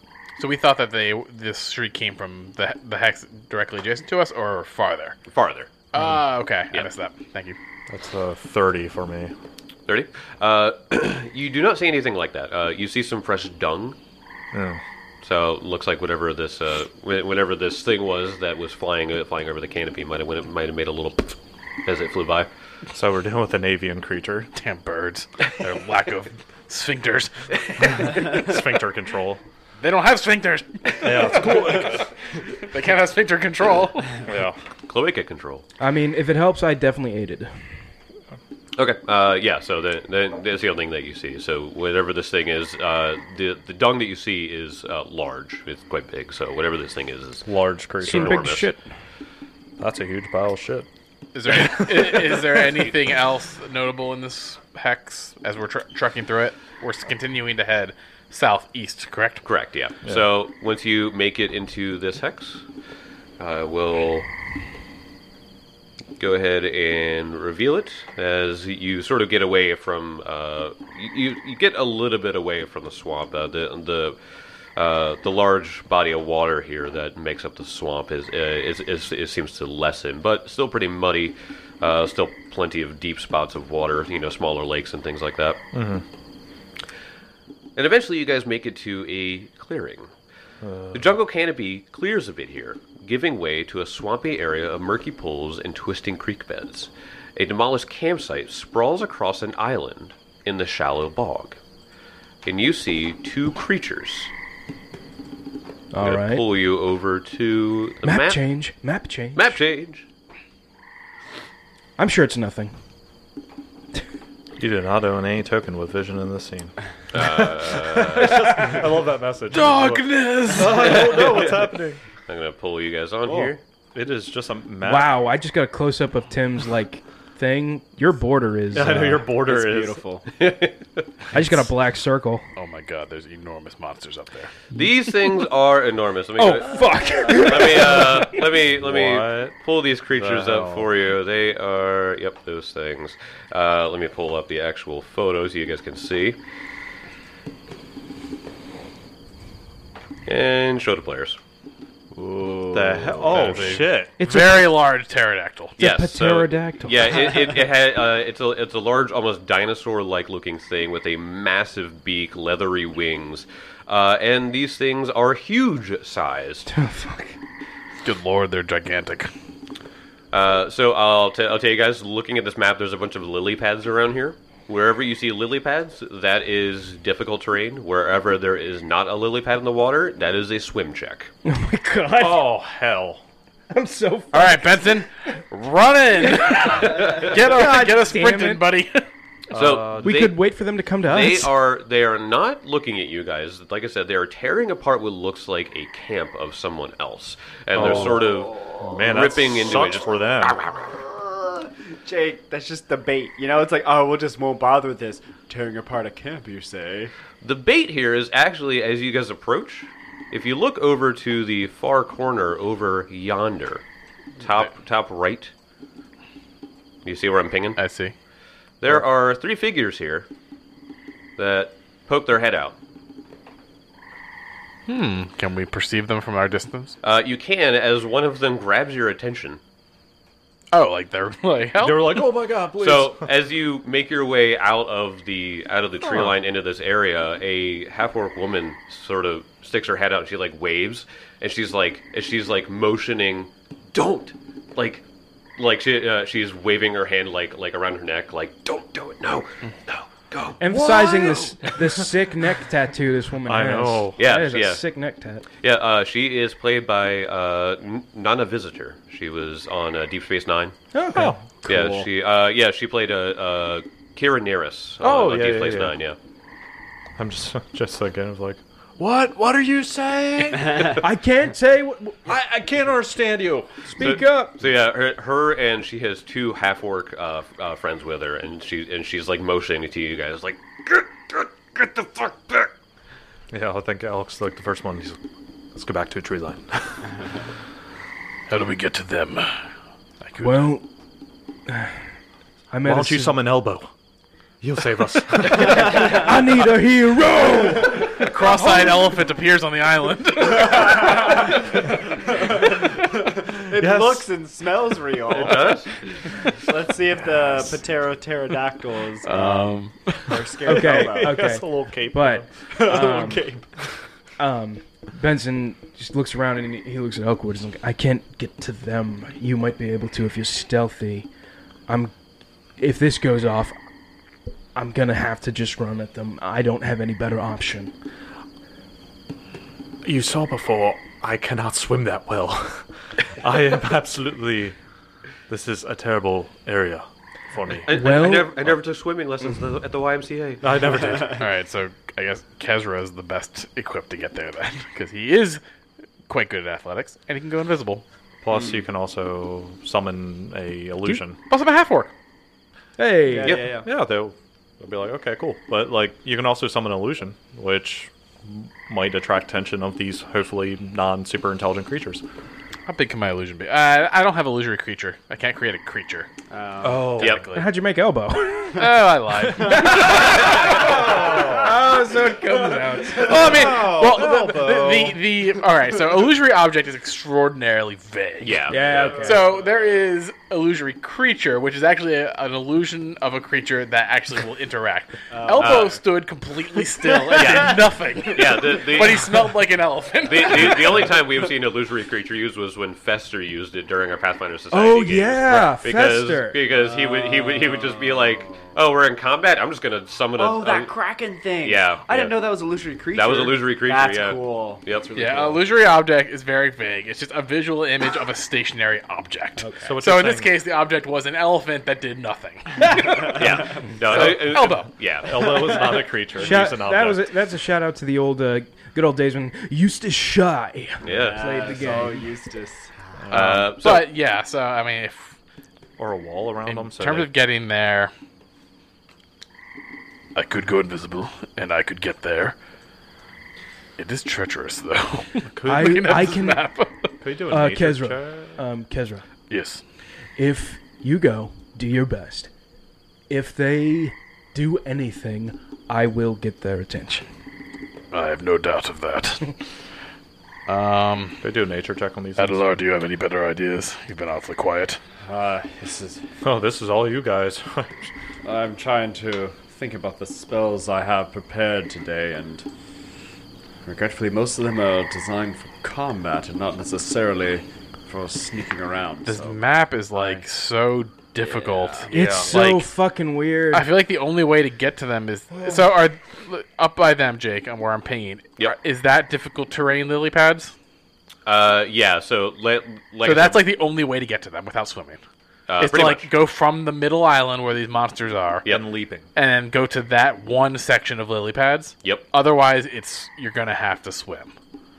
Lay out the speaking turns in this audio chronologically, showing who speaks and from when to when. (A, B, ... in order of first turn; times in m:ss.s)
0:00.4-0:05.2 A
0:05.3-0:05.7 B
0:05.9-0:07.6 A
0:07.9-0:09.3 C
0:09.9-0:14.0 B
0:14.5-0:14.8 C
0:15.2-0:22.5 B
0:22.9-0:24.5 C
0:24.6-0:28.5 A
0:28.0-0:29.4 C
0:29.8-0:34.3 A
0:31.0-0:32.0 C
0:34.3-0:34.6 C
0:34.9-0:35.6 B
0:35.8-0:37.5 D
0:38.8-0:47.5 B
0:47.5-0:48.5 C
0:48.0-0:48.7 B
0:48.0-0:48.8 D
0:49.8-0:50.9 C
0:51.3-0:59.5 A
0:51.5-0:52.3 C
0:59.4-1:02.6 B
1:03.4-1:04.3 B
1:06.2-1:14.2 B
1:14.8-1:25.6 B
1:25.7-1:26.0 C
1:27.8-1:30.1 B
1:30.6-1:31.1 C
1:30.9-1:41.6 B
1:42.4-1:44.3 B
1:45.9-1:46.4 D
1:46.0-1:48.4 B
1:48.0-1:49.6 D
1:49.4-1:50.0 B
1:52.0-1:52.7 D
1:54.6-2:02.0 C
1:57.1-1:58.8 B
1:59.5-2:01.3 A
2:00.7-2:01.7 B
2:02.3-2:03.6 B
2:03.3-2:05.2 C
2:04.8-2:09.3 D
2:08.7-2:10.0 C
2:09.4-2:10.3 E
2:10.4-2:11.0 B
2:11.3-2:12.5 D
2:12.6-2:14.5 A
2:14.7-2:26.4 B
2:16.4-2:18.4 D
2:18.7-2:19.6 C
2:20.2-2:20.9 C
2:30.3-2:31.4 B
2:32.1-2:33.6 E
2:32.7-2:34.1 C
2:33.3-2:35.8 A
2:34.2-2:34.8 D
2:35.8-2:37.2 D
2:35.8-2:46.7 B
2:46.7-2:47.4 D
2:48.0-2:49.3 A
2:50.3-3:01.3 B
3:01.4-3:02.5 D
3:02.2-3:03.2 C
3:03.7-3:05.0 D
3:04.3-3:09.1 A
3:06.2-3:08.7 D
3:09.5-3:10.2 C
3:09.5-3:10.4 B
3:10.0-3:11.5 D
3:11.0-3:21.0 B
3:17.7-3:18.3 C
3:17.9-3:18.8 E
3:18.8-3:20.6 C
3:21.6-3:27.1 E
3:27.4-3:33.8 B
3:34.4-3:35.5 B
3:37.0-3:37.8 B
3:37.8-3:38.1 A
3:38.8-3:40.3 B
3:41.4-3:42.8 B
3:44.9-3:47.0 A
3:47.0-3:49.6 B
3:50.7-3:52.4 A
3:51.8-3:53.3 C
3:52.8-4:05.0 B
4:05.6-4:11.2 B
4:10.6-4:15.4 D
4:10.7-4:12.1 C
4:13.4-4:14.2 C
4:14.2-4:14.8 B
4:15.6-4:20.8 B
4:20.9-4:21.4 D
4:21.1-4:21.4 C
4:21.6-4:22.1 E
4:21.7-4:26.2 B
4:25.0-4:26.0 C
4:27.2-4:31.0 C
4:31.0-4:32.3 D
4:32.3-4:34.0 C
4:33.9-4:34.6 D
4:34.0-4:42.7 B
4:43.5-4:45.2 C
4:45.8-4:47.2 C
4:48.5-4:49.6 A
4:50.2-4:50.7 A
4:50.4-4:50.8 D
4:51.7-4:52.0 D
4:52.7-4:53.5 D
4:52.8-4:53.9 C
4:54.6-4:56.2 C
4:55.6-4:59.2 D
4:58.1-5:01.4 A
5:00.9-5:01.4 E
5:02.2-5:11.4 E
5:03.8-5:04.3 C
5:05.3-5:06.0 B
5:09.2-5:10.4 A
5:10.6-5:13.4 D
5:10.7-5:12.5 C
5:12.7-5:13.7 E
5:14.4-5:21.3 D
5:21.9-5:22.1 D
5:22.8-5:23.8 D
5:24.8-5:27.9 D
5:30.0-5:34.8 C
5:35.5-5:38.0 C
5:37.9-5:41.2 B
5:37.9-5:38.6 D
5:40.6-5:41.4 C
5:41.3-5:45.6 A
5:46.3-5:48.0 A
5:48.4-5:51.4 C
5:51.5-5:52.1 A
5:53.0-5:53.6 D
5:53.2-5:53.9 E
5:53.8-6:02.2 C
6:02.9-6:06.3 A
6:06.5-6:07.2 E
6:06.8-6:07.5 C
6:07.2-6:07.7 A
6:07.2-6:07.4 B
6:07.5-6:08.9 D
6:08.7-6:10.2 A
6:09.6-6:13.6 D
6:09.8-6:11.7 E
6:11.1-6:11.4 C
6:13.2-6:31.1 A
6:13.2-6:14.9 E
6:14.0-6:15.2 C
6:18.4-6:19.3 B
6:18.7-6:19.5 D
6:19.1-6:19.7 E
6:25.3-6:26.0 E
6:25.6-6:25.9 B
6:27.0-6:27.7 E
6:27.3-6:29.3 B
6:30.2-6:40.9 B
6:34.7-6:36.6 D
6:36.7-6:38.7 E
6:40.4-6:45.7 E
6:41.6-6:42.4 B
6:43.1-6:45.0 B
6:45.2-6:53.4 A
6:49.8-6:50.5 C
6:53.2-6:53.8 E
6:53.2-6:55.8 B
6:54.1-6:54.9 A
6:55.2-6:57.3 C
6:55.4-6:55.8 E
6:56.4-7:02.3 D
7:01.0-7:01.8 B
7:01.1-7:03.2 E
7:03.2-7:03.7 C
7:03.3-7:05.4 A
7:03.3-7:04.1 B
7:06.0-7:07.3 C
7:06.7-7:08.1 A
7:10.4-7:12.6 A
7:14.0-7:17.1 A
7:15.5-7:16.4 C
7:15.7-7:16.7 D
7:17.2-7:18.6 C
7:17.5-7:19.2 D
7:19.5-7:19.8 A
7:20.4-7:22.5 D
7:23.3-7:27.2 D
7:28.1-7:29.6 A
7:30.7-7:31.4 A
7:31.4-7:32.8 C
7:32.4-7:35.0 A
7:35.2-7:36.2 E
7:36.4-7:38.1 C
7:38.4-7:42.7 E
7:43.8-7:49.6 E
7:49.3-7:52.9 A
7:50.1-7:50.4 E
7:51.4-7:52.1 E
7:52.1-7:53.9 D
7:52.1-7:52.5 C
7:53.7-8:00.7 A
8:01.5-8:03.6 B
8:03.2-8:05.2 A
8:05.7-8:06.3 B
8:05.8-8:08.7 A
8:08.7-8:09.3 C
8:09.4-8:14.5 A